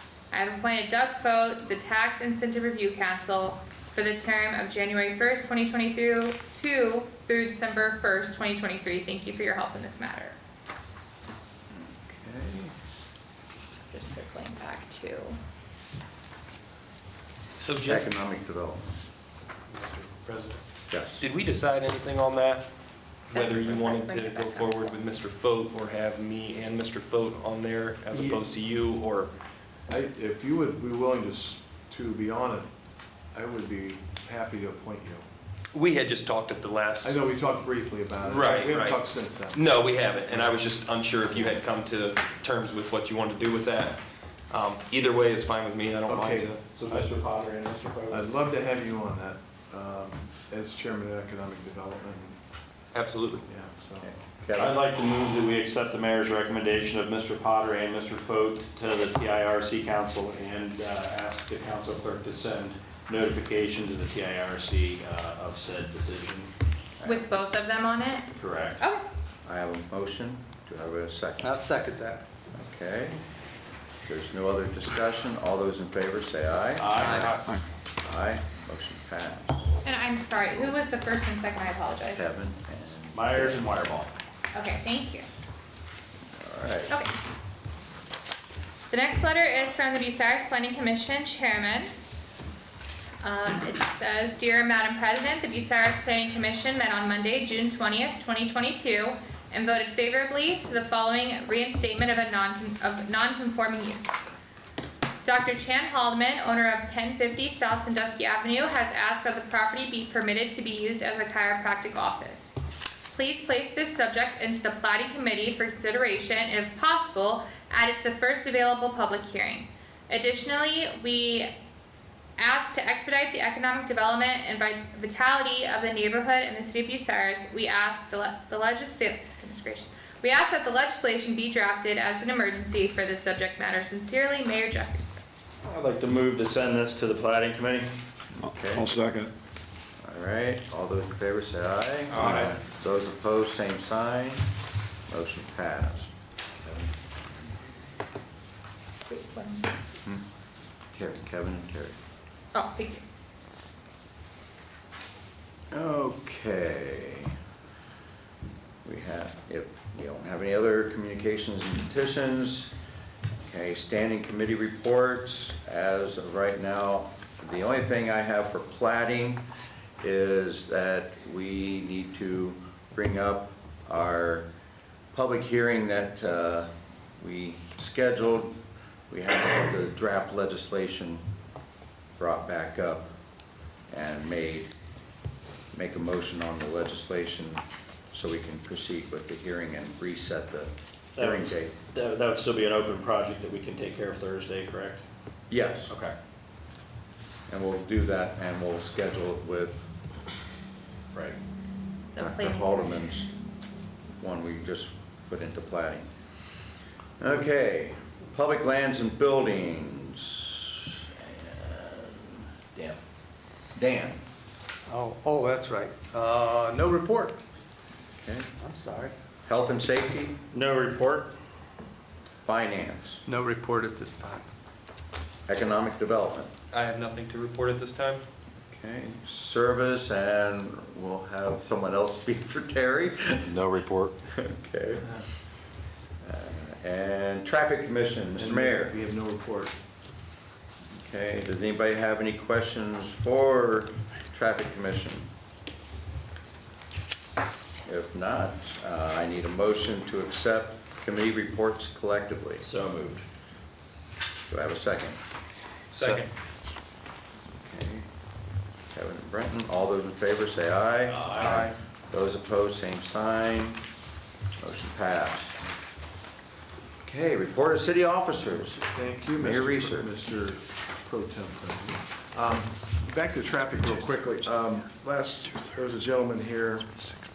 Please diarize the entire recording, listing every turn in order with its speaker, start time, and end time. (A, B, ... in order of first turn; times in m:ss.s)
0:00.3-0:10.4 A
0:11.7-0:12.7 B
0:13.9-0:15.4 A
0:17.6-0:18.0 C
0:17.8-0:18.9 B
0:19.7-0:20.6 C
0:20.9-0:21.2 B
0:21.2-0:22.6 C
0:23.3-0:29.3 C
0:23.3-0:25.0 A
0:29.9-0:32.7 D
0:33.3-0:35.2 D
0:35.7-0:37.2 C
0:37.0-0:39.6 D
0:38.3-0:39.0 C
0:39.5-0:47.9 C
0:40.3-0:40.6 D
0:46.1-0:47.2 D
0:46.8-0:48.1 E
0:48.1-0:52.4 D
0:52.9-0:53.4 C
0:53.4-0:54.1 D
0:54.0-0:54.8 B
0:54.5-1:06.5 E
1:07.0-1:07.3 B
1:07.0-1:08.3 A
1:08.4-1:08.8 E
1:08.8-1:09.0 A
1:09.4-1:11.9 B
1:12.5-1:13.2 B
1:14.0-1:17.4 B
1:16.8-1:17.6 E
1:18.0-1:19.7 B
1:19.8-1:22.2 A
1:22.1-1:23.7 B
1:23.1-1:24.1 E
1:24.5-1:25.3 A
1:26.3-1:27.0 B
1:28.9-1:31.9 A
1:33.2-1:44.2 A
1:45.2-1:52.6 A
1:53.1-2:01.5 A
2:02.4-2:15.0 A
2:15.6-2:17.9 E
2:18.4-2:19.0 B
2:18.7-2:19.3 E
2:20.0-2:24.5 B
2:22.1-2:22.5 C
2:25.1-2:27.0 B
2:29.1-2:29.7 A
2:30.9-2:32.0 B
2:32.5-2:33.0 A
2:35.7-2:37.4 B
2:38.8-2:42.7 B
2:43.4-2:49.5 B
2:50.0-2:54.5 B
2:55.1-2:58.6 B
2:59.1-3:01.2 B
3:02.2-3:03.1 B
3:03.9-3:04.7 B
3:05.7-3:11.7 B
3:11.2-3:15.0 E
3:15.5-3:15.9 B
3:15.9-3:16.2 E
3:17.5-3:19.9 B
3:21.1-3:21.4 E
3:22.2-3:23.1 A
3:22.2-3:23.3 B
3:24.2-3:26.1 B
3:27.2-3:33.0 B
3:33.8-3:34.2 B
3:34.9-3:37.4 F
3:38.2-3:38.5 B
3:38.7-3:39.1 F
3:39.5-3:40.4 B
3:40.5-3:41.4 E
3:42.4-3:43.2 B
3:43.3-3:44.4 F
3:45.5-3:46.5 B
3:46.7-3:48.2 C
3:48.7-3:53.7 B
3:53.6-3:54.1 E
3:54.2-3:55.3 B
3:56.2-3:58.9 B
3:58.4-3:59.8 D
4:01.0-4:05.3 B
4:07.9-4:12.6 B
4:12.6-4:13.2 E
4:14.5-4:15.2 B
4:16.0-4:16.3 C
4:17.6-4:18.1 B
4:18.9-4:23.8 B
4:21.0-4:21.7 E
4:24.6-4:25.6 B
4:27.0-4:30.1 B
4:28.8-4:37.0 D